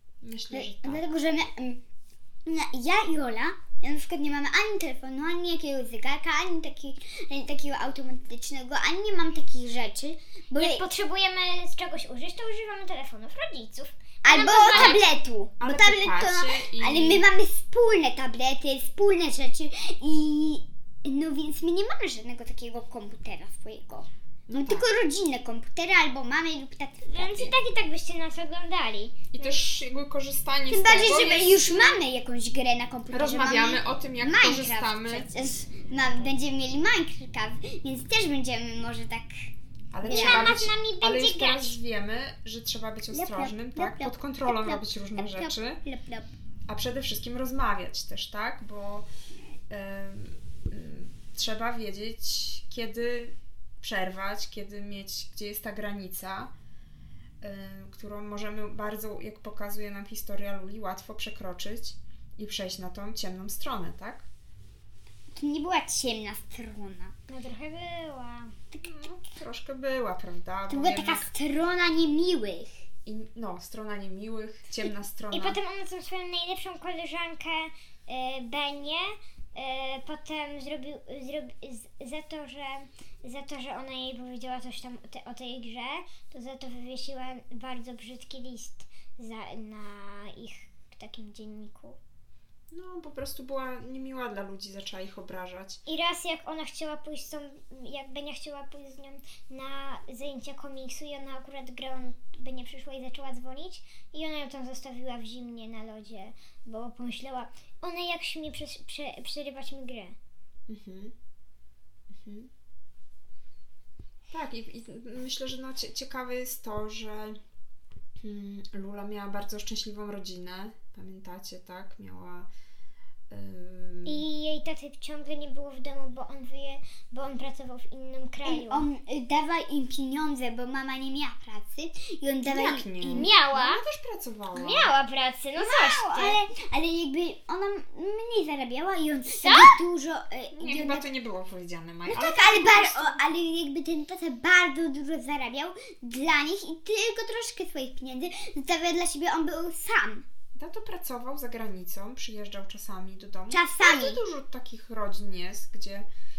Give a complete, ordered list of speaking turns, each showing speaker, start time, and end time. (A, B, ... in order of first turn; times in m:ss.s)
0:00.2-0:01.1 A
0:00.5-0:01.8 B
0:02.4-0:10.9 B
0:10.6-0:15.1 C
0:14.2-0:27.5 B
0:14.7-0:15.0 A
0:15.6-0:17.3 A
0:24.5-0:24.9 A
0:27.1-0:29.6 C
0:29.3-0:31.7 A
0:30.7-0:39.5 B
0:31.7-0:32.0 C
0:33.1-0:35.3 A
0:39.9-0:45.8 A
0:40.0-0:41.8 C
0:40.0-0:40.6 B
0:43.1-0:46.3 B
0:46.7-0:49.1 A
0:49.7-0:56.5 A
0:57.4-1:04.3 A
1:05.3-1:07.2 B
1:07.3-1:08.5 C
1:08.8-1:11.3 A
1:10.7-1:12.7 B
1:13.1-1:15.6 A
1:15.3-1:32.0 C
1:32.7-1:35.8 A
1:35.9-1:50.2 C
1:50.7-1:51.1 A
1:52.1-1:52.5 A
1:54.3-1:57.4 A
1:58.2-2:02.5 A
2:03.3-2:04.2 A
2:04.1-2:08.9 C
2:08.4-2:13.3 B
2:12.5-2:14.9 A
2:13.0-2:13.8 C
2:14.5-2:16.4 C
2:15.6-2:21.1 B
2:19.4-2:19.8 C
2:20.6-2:23.2 A
2:22.1-2:30.2 B
2:30.6-2:36.0 A
2:33.5-2:34.2 B